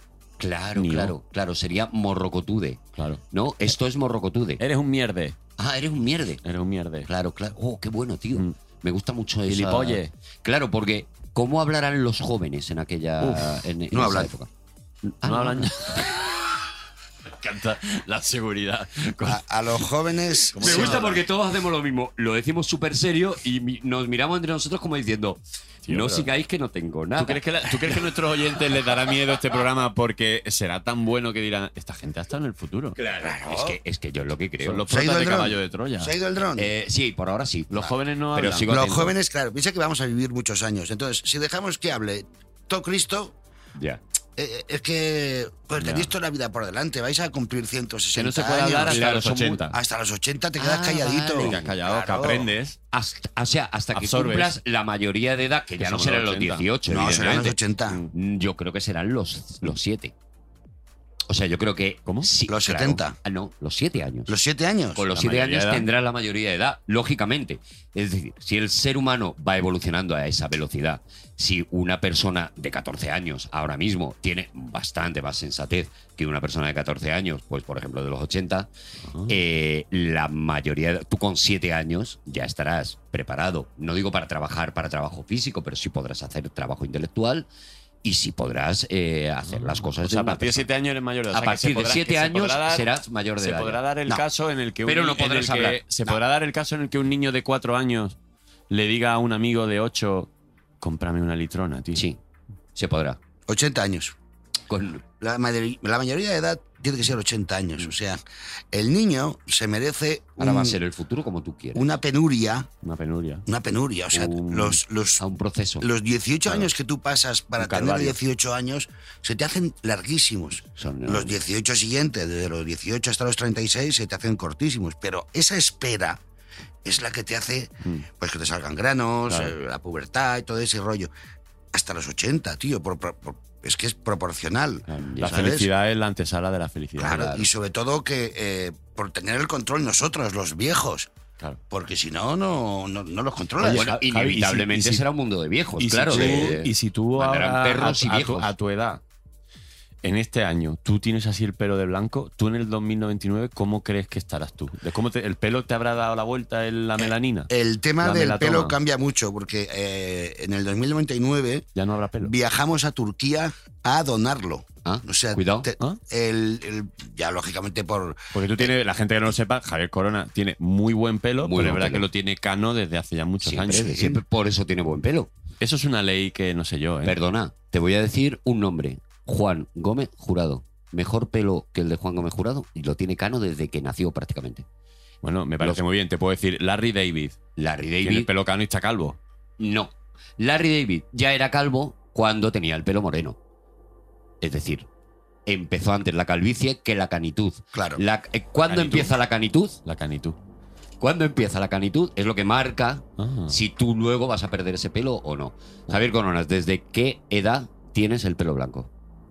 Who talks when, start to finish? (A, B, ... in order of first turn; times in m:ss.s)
0:00.4-0:04.6 A
0:00.8-0:01.1 B
0:03.0-0:03.2 B
0:04.6-0:05.4 B
0:05.6-0:06.4 A
0:06.4-0:07.1 B
0:07.0-0:14.5 A
0:09.4-0:10.1 B
0:13.2-0:13.6 B
0:13.9-0:14.3 C
0:15.0-0:15.7 A
0:15.2-0:16.5 B
0:17.4-0:19.4 B
0:19.2-0:21.2 C
0:20.5-0:21.2 B
0:20.6-0:28.0 A
0:25.8-0:26.3 B
0:27.2-0:33.0 B
0:33.0-0:34.8 A
0:33.1-0:33.8 C
0:34.6-0:36.1 B
0:34.9-0:36.7 C
0:36.6-0:39.1 A
0:37.7-0:38.9 B
0:38.6-0:43.3 C
0:43.8-0:44.0 A
0:44.4-0:49.0 C
0:45.8-0:46.1 B
0:48.1-0:49.8 B
0:48.4-0:49.6 A
0:49.7-0:52.5 C
0:50.6-0:51.7 A
0:51.4-0:52.8 B
0:52.9-0:57.6 A
0:53.9-0:54.6 B
0:55.8-0:58.1 B
0:56.9-0:58.0 C
0:58.1-1:00.1 A
1:01.3-1:04.3 A
1:02.5-1:03.2 C
1:04.3-1:05.0 C
1:04.9-1:18.7 A
1:05.1-1:05.9 B
1:19.0-1:19.4 B
1:19.3-1:27.5 A
1:28.0-1:30.7 A
1:29.5-1:38.2 B
1:31.3-1:34.2 A
1:34.8-1:35.8 A
1:38.7-1:40.3 B
1:40.8-1:42.0 B
1:41.9-1:42.2 A
1:42.7-1:43.2 A
1:43.5-1:44.1 C
1:44.7-1:45.0 A
1:45.2-1:48.2 C
1:48.7-1:50.8 C
1:50.4-1:51.9 A
1:51.7-1:52.7 C
1:52.8-1:53.4 B
1:53.5-1:55.2 C
1:54.1-1:54.8 B
1:55.2-1:55.9 A
1:55.8-2:06.2 C
1:57.6-1:58.2 B
2:00.7-2:01.4 A
2:06.8-2:11.1 C
2:09.3-2:09.5 B
2:11.7-2:15.7 C
2:14.9-2:17.3 B
2:15.0-2:15.4 A
2:17.0-2:17.5 A
2:17.0-2:21.1 C
2:21.7-2:23.9 C
2:23.6-2:25.0 B
2:23.6-2:28.5 A
2:25.8-2:29.0 B
2:26.1-2:26.5 C
2:30.0-2:38.8 B
2:37.0-2:41.7 C
2:41.7-2:42.3 B
2:42.2-2:48.7 C
2:44.8-2:45.7 A
2:48.3-2:54.1 B
2:51.4-2:52.1 A
2:53.4-2:55.3 A
2:53.7-2:54.1 C
2:55.6-2:57.2 B
2:57.0-3:04.6 A
3:05.2-3:07.4 B
3:07.6-3:08.3 A
3:08.0-3:09.2 B
3:09.6-3:13.4 A
3:14.4-3:14.9 A
3:15.4-3:19.8 A
3:17.7-3:18.0 C
3:18.7-3:19.1 B
3:19.8-3:20.4 B
3:21.0-3:28.9 A
3:23.2-3:23.6 B